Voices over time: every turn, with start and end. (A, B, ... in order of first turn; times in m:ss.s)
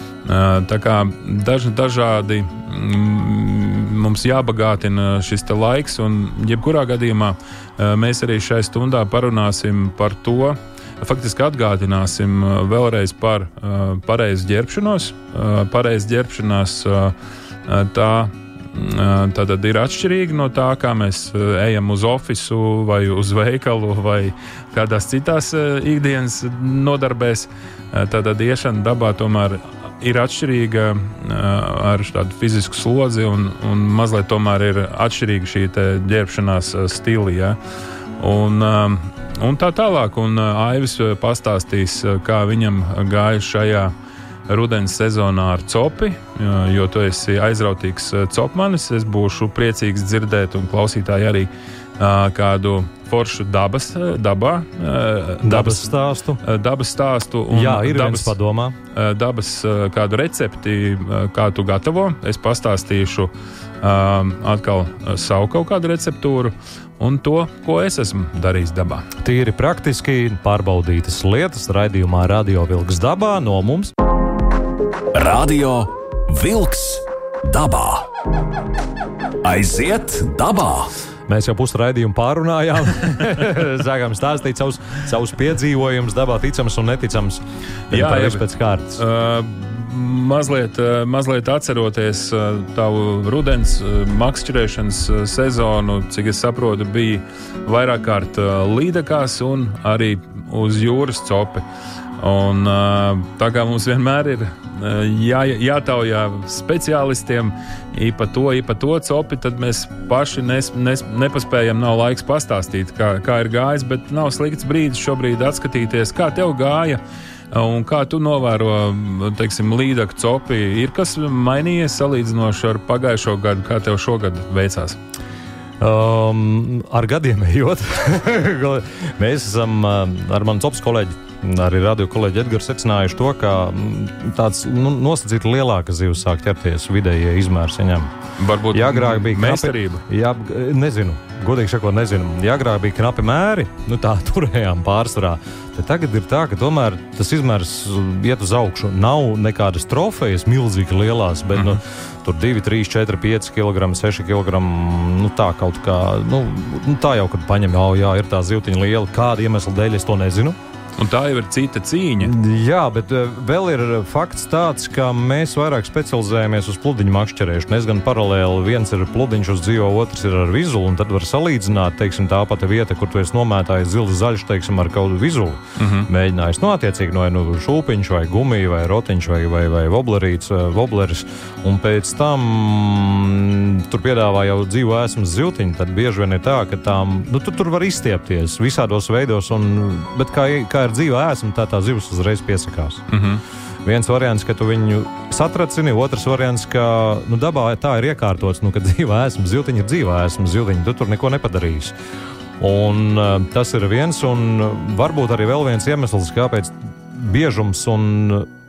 0:00.2-0:17.1 A
0:17.6-0:37.6 A
0:38.2-0:43.9 A
0:44.5-0:58.4 A
0:55.4-0:56.4 B
0:57.5-0:58.7 B
0:58.9-1:03.3 A
1:03.8-1:09.1 A
1:09.2-1:13.9 B
1:15.1-1:18.1 C
1:19.4-1:20.9 C
1:21.3-1:29.0 B
1:27.9-1:28.4 A
1:29.0-1:41.6 A
1:42.2-1:57.0 A
1:57.5-2:05.0 A
2:05.8-2:18.1 B
2:18.4-2:20.0 A
2:18.7-2:40.6 B
2:41.0-2:42.3 A
2:42.2-3:13.0 B
2:55.8-2:56.1 A
3:13.1-3:13.4 A
3:13.8-3:21.9 B
3:22.6-3:28.5 B